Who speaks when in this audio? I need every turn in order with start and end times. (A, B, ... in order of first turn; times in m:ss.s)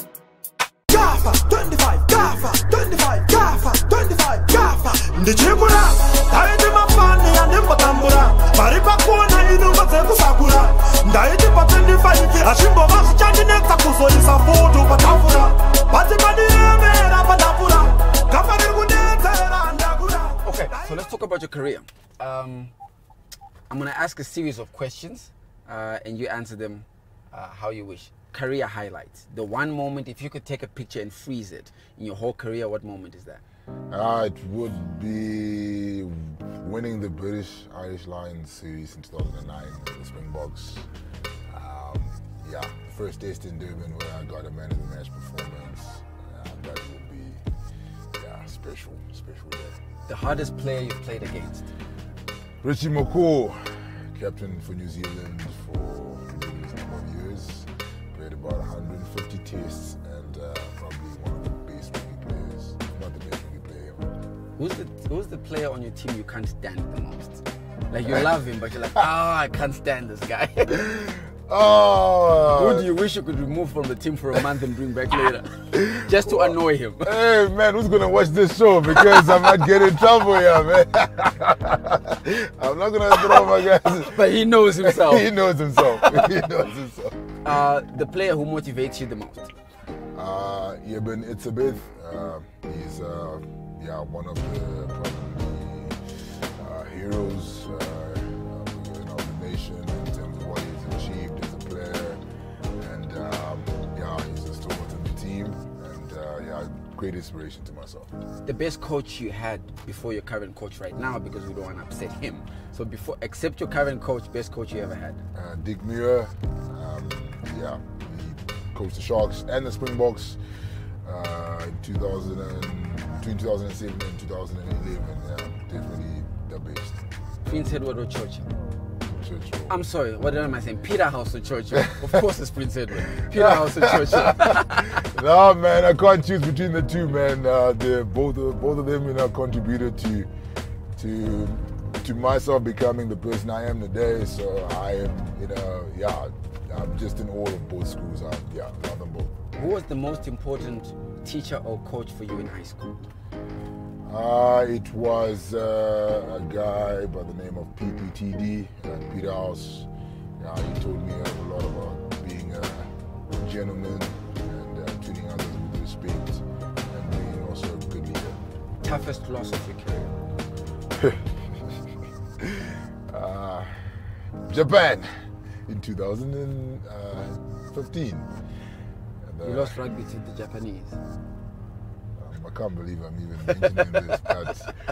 0:00.9-0:20.9 A
0:20.4-0:22.7 B
0:23.7-0:33.4 B
0:33.9-0:40.9 C
0:41.5-0:47.4 C
0:48.1-0:49.8 C
0:50.1-0:51.7 B
0:52.6-1:04.1 C
1:04.6-1:10.9 B
1:10.7-1:12.9 C
1:12.5-1:17.1 B
1:15.7-1:24.3 C
1:19.2-1:19.4 B
1:23.7-1:25.3 B
1:24.8-1:27.4 C
1:26.0-1:26.4 B
1:27.4-1:29.5 B
1:30.1-1:36.0 C
1:36.6-1:42.2 C
1:42.8-1:48.1 C
1:48.4-1:55.2 B
1:55.4-2:00.4 C
2:01.0-2:07.0 C
2:07.4-2:08.5 B
2:09.1-2:09.8 C
2:09.7-2:15.0 B
2:13.3-2:20.3 C
2:21.0-2:29.3 C
2:29.6-2:33.1 B
2:34.0-2:39.9 C
2:40.4-2:48.4 C
2:48.8-2:50.1 B
2:50.9-2:51.8 C
2:52.4-2:53.7 C
2:54.5-2:55.1 C
2:55.7-2:58.3 C
2:59.2-2:59.8 C
2:59.4-3:01.0 B
3:02.2-3:04.7 C